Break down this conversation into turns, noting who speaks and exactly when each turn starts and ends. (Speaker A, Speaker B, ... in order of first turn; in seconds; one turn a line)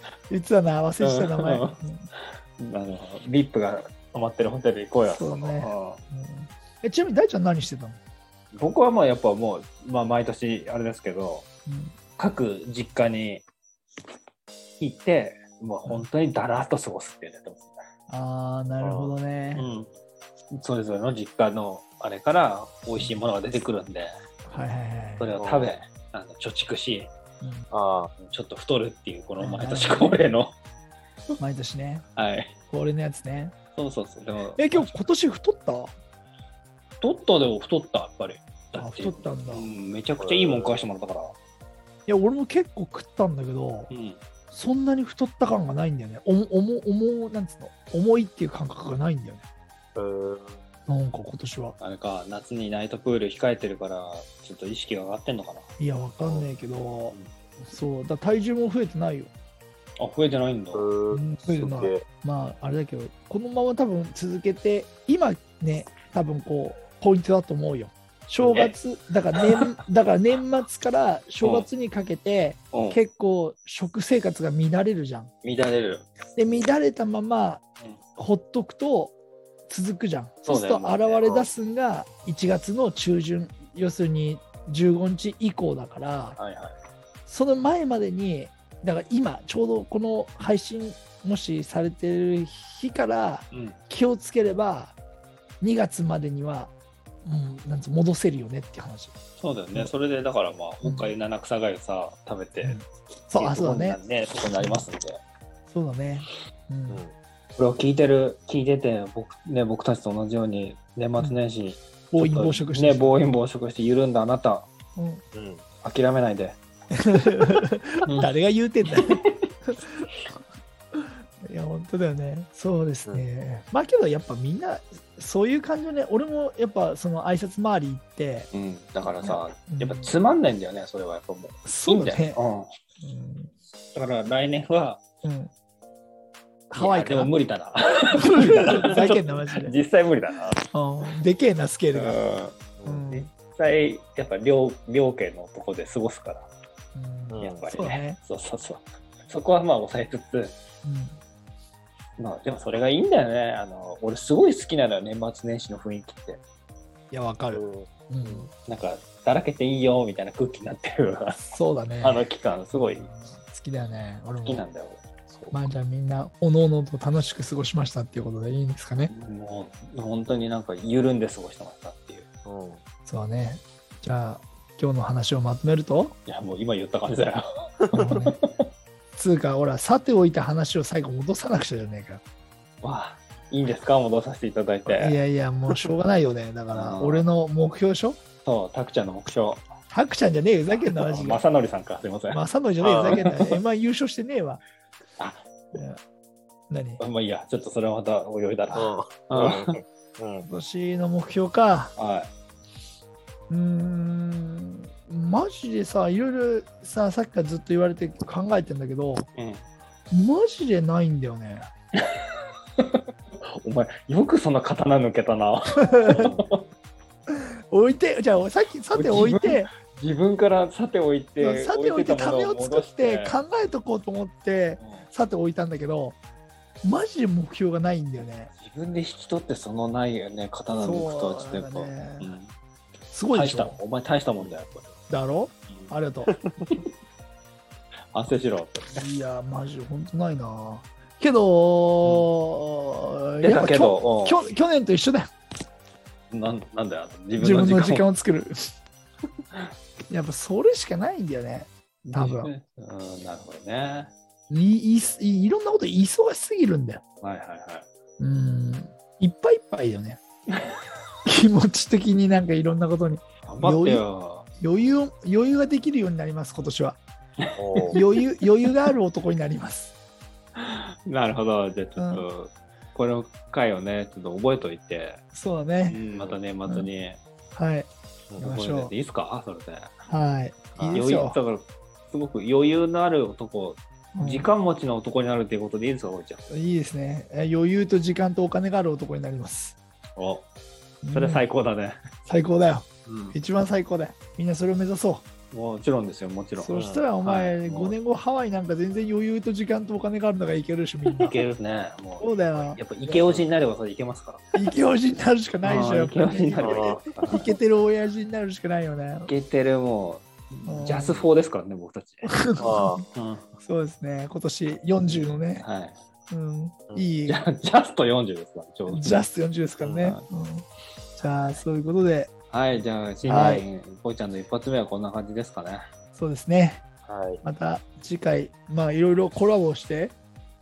Speaker A: 0.3-2.1
Speaker B: 1.0-1.8
Speaker B: 2.6-6.0
Speaker A: 5.0-8.0
Speaker B: 8.6-11.4
Speaker A: 11.7-12.0
Speaker B: 12.2-13.4
Speaker B: 14.8-17.8
Speaker A: 18.1-19.7
Speaker C: 18.8-19.2
Speaker B: 19.6-19.9
Speaker B: 20.5-24.1
Speaker A: 24.5-25.3
Speaker B: 25.2-27.1
Speaker C: 25.4-25.7
Speaker C: 27.7-28.1
Speaker B: 28.2-30.6
Speaker A: 29.4-30.3
Speaker A: 31.4-32.0
Speaker B: 32.2-32.5
Speaker A: 32.7-33.5
Speaker B: 33.8-34.9
Speaker A: 34.6-35.9
Speaker B: 37.0-41.4
Speaker A: 38.8-39.7
Speaker C: 40.2-40.9
Speaker A: 42.1-43.9
Speaker B: 43.9-44.2
Speaker A: 44.5-49.4
Speaker C: 50.0-50.6
Speaker A: 50.9-51.8
Speaker B: 51.8-55.7
Speaker A: 55.8-59.3
Speaker B: 60.0-60.9
Speaker C: 60.7-62.1
Speaker A: 61.1-75.3
Speaker B: 68.4-68.7
Speaker B: 71.4-71.7
Speaker B: 72.7-73.0
Speaker B: 75.4-76.6
Speaker A: 76.4-77.6
Speaker A: 78.2-79.2
Speaker A: 79.7-86.4
Speaker B: 80.5-81.3
Speaker C: 81.2-81.5
Speaker B: 86.4-86.8
Speaker A: 87.3-95.0
Speaker B: 93.5-93.8
Speaker A: 95.6-96.7
Speaker A: 97.2-99.1
Speaker B: 99.4-102.8
Speaker A: 100.8-101.1
Speaker A: 102.6-104.0
Speaker B: 103.3-105.2
Speaker A: 104.5-104.9
Speaker A: 105.7-107.0
Speaker C: 106.9-107.1
Speaker B: 107.6-114.7
Speaker A: 112.1-113.3
Speaker A: 115.0-115.2
Speaker C: 115.3-115.6
Speaker B: 115.8-116.6
Speaker A: 117.1-120.1
Speaker B: 118.0-118.3
Speaker B: 118.9-119.3
Speaker A: 121.0-128.5
Speaker B: 128.5-132.7
Speaker A: 129.0-130.2
Speaker A: 131.7-132.4
Speaker A: 133.0-133.5
Speaker B: 133.9-135.0
Speaker A: 135.2-135.5
Speaker A: 136.7-137.3
Speaker B: 136.8-140.7
Speaker A: 138.2-139.7
Speaker A: 140.7-142.2
Speaker B: 141.9-142.6
Speaker C: 142.8-143.1
Speaker A: 142.9-143.3
Speaker B: 143.1-146.5
Speaker A: 146.9-148.2
Speaker C: 147.3-147.7
Speaker B: 147.4-150.6
Speaker A: 150.8-151.2
Speaker B: 152.2-156.4
Speaker A: 157.1-158.5
Speaker C: 157.5-158.5
Speaker B: 158.7-163.1
Speaker A: 161.5-164.7
Speaker B: 164.4-165.0
Speaker C: 165.3-165.7
Speaker A: 165.5-169.1
Speaker B: 169.1-172.2
Speaker C: 172.5-172.8
Speaker A: 173.1-176.2
Speaker B: 176.3-178.7
Speaker A: 177.9-178.4
Speaker A: 179.2-182.2
Speaker B: 182.8-185.2
Speaker A: 184.9-188.2
Speaker B: 186.7-187.3
Speaker B: 188.4-189.6
Speaker A: 189.9-191.4
Speaker B: 190.8-192.4
Speaker A: 192.3-194.6
Speaker C: 192.8-193.2
Speaker B: 193.0-193.6
Speaker A: 196.7-197.0
Speaker B: 197.0-199.8
Speaker C: 198.7-200.5
Speaker A: 200.5-201.9
Speaker B: 202.0-202.3
Speaker A: 203.5-209.3
Speaker B: 209.4-209.6
Speaker A: 210.1-211.7
Speaker B: 212.8-216.7
Speaker A: 215.8-216.3
Speaker A: 217.3-219.7
Speaker B: 218.9-223.4
Speaker A: 221.4-226.2
Speaker B: 224.8-225.1
Speaker A: 226.8-228.5
Speaker B: 228.6-232.5
Speaker A: 230.7-232.3
Speaker A: 233.1-233.8
Speaker B: 233.3-234.9
Speaker A: 235.1-236.3
Speaker B: 238.1-239.1
Speaker A: 238.9-245.3
Speaker B: 242.0-242.3
Speaker B: 243.4-244.4
Speaker B: 246.3-248.1
Speaker A: 247.4-248.6
Speaker A: 250.1-252.5
Speaker B: 252.1-254.1
Speaker A: 254.5-257.0
Speaker B: 257.2-257.9
Speaker A: 258.2-260.2
Speaker A: 261.3-264.1
Speaker B: 263.4-264.5
Speaker A: 264.6-267.0
Speaker C: 267.6-268.1
Speaker A: 267.9-269.9
Speaker B: 270.6-275.2
Speaker A: 272.0-272.3
Speaker A: 275.3-276.0
Speaker B: 275.9-277.2
Speaker C: 276.1-276.4
Speaker A: 277.5-278.9
Speaker B: 278.4-279.9
Speaker A: 280.1-281.4
Speaker C: 280.8-281.0
Speaker B: 280.9-286.4
Speaker A: 284.1-284.5
Speaker A: 286.5-289.8
Speaker B: 290.2-290.4
Speaker A: 291.0-291.5
Speaker B: 291.1-292.0
Speaker A: 292.3-295.2
Speaker B: 293.1-293.4
Speaker B: 295.5-298.0
Speaker A: 296.6-301.4
Speaker C: 296.7-297.1
Speaker B: 301.1-304.5
Speaker A: 302.2-303.4
Speaker A: 304.5-309.3
Speaker B: 305.6-307.6
Speaker C: 306.6-307.0
Speaker B: 309.3-313.4
Speaker A: 310.7-311.3
Speaker A: 312.3-313.1
Speaker C: 312.6-313.0
Speaker A: 313.6-315.6
Speaker B: 315.0-316.0
Speaker A: 316.3-317.5
Speaker B: 317.3-319.2
Speaker A: 318.9-320.6
Speaker C: 319.8-320.1
Speaker A: 321.2-322.3
Speaker B: 321.2-321.6
Speaker B: 322.5-325.9
Speaker A: 323.2-323.7
Speaker A: 326.1-326.8
Speaker C: 327.1-327.4
Speaker A: 327.4-330.2